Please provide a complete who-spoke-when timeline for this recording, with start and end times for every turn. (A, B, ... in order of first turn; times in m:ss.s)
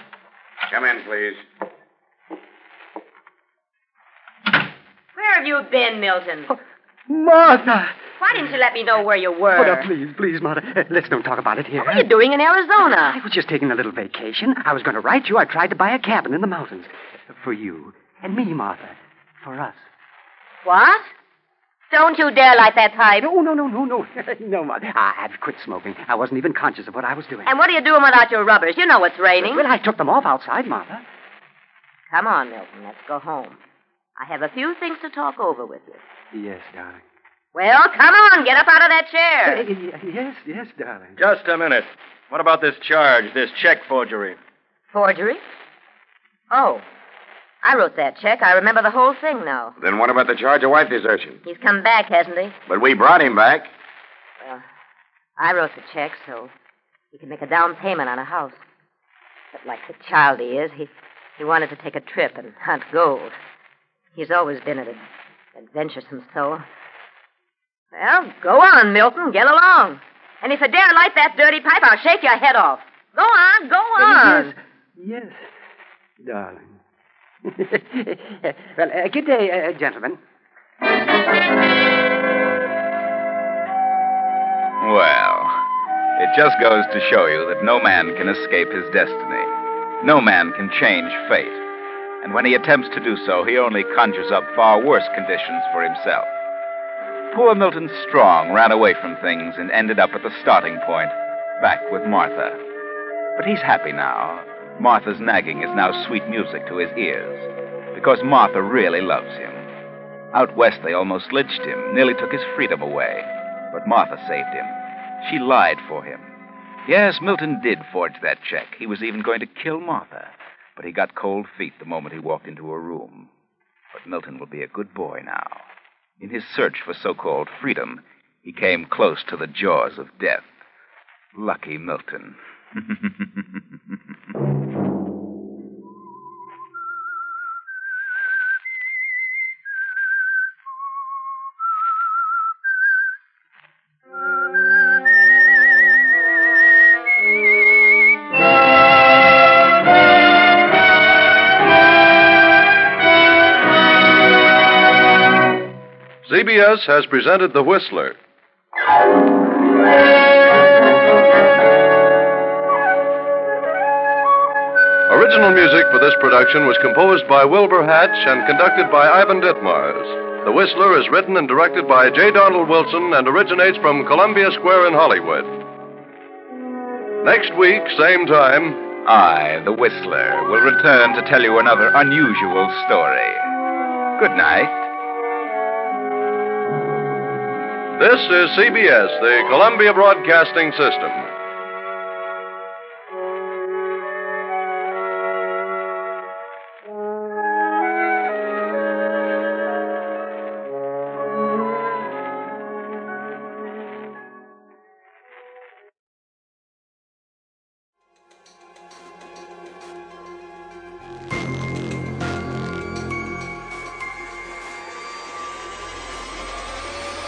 0:00.7-0:01.4 A
0:05.1-0:06.5 B
0:06.5-0:08.0 C
0:08.2-0:09.9 B
0:09.5-0:12.1 C
0:11.8-0:13.2 B
0:13.0-0:19.8 C
0:20.6-0:21.1 B
0:21.9-0:23.2 B
0:23.2-0:27.5 C
0:27.4-0:29.6 B
0:29.4-0:31.0 C
0:32.1-0:33.6 B
0:34.2-0:36.0 B
0:36.3-0:37.0 C
0:37.5-0:39.7 B
0:39.4-0:41.2 C
0:41.2-0:44.4 D
0:44.9-0:45.4 B
0:46.5-0:46.8 B
0:47.6-0:49.7 B
0:49.8-0:51.4 A
0:51.4-0:52.6 B
0:52.7-0:53.7 A
0:55.4-0:56.5 B
0:57.1-0:58.6 B
0:59.5-1:03.3 B
1:04.1-1:05.0 B
1:05.5-1:06.6 B
1:07.9-1:14.5 B
1:14.0-1:15.4 C
1:16.2-1:16.8 C
1:17.4-1:20.2 C
1:24.8-1:25.6 E
1:26.2-1:31.6 E
1:32.2-1:36.3 E
1:37.3-1:42.6 E
1:43.4-1:49.7 E
1:50.3-1:56.3 E
1:56.9-2:03.3 E
2:03.9-2:05.6 E
2:06.2-2:10.5 E
2:11.3-2:13.6 E
2:36.2-2:38.2 F
2:45.1-2:55.6 F
2:57.2-2:58.8 F
2:59.0-3:03.5 E
3:04.2-3:04.9 E
3:08.0-3:11.3 F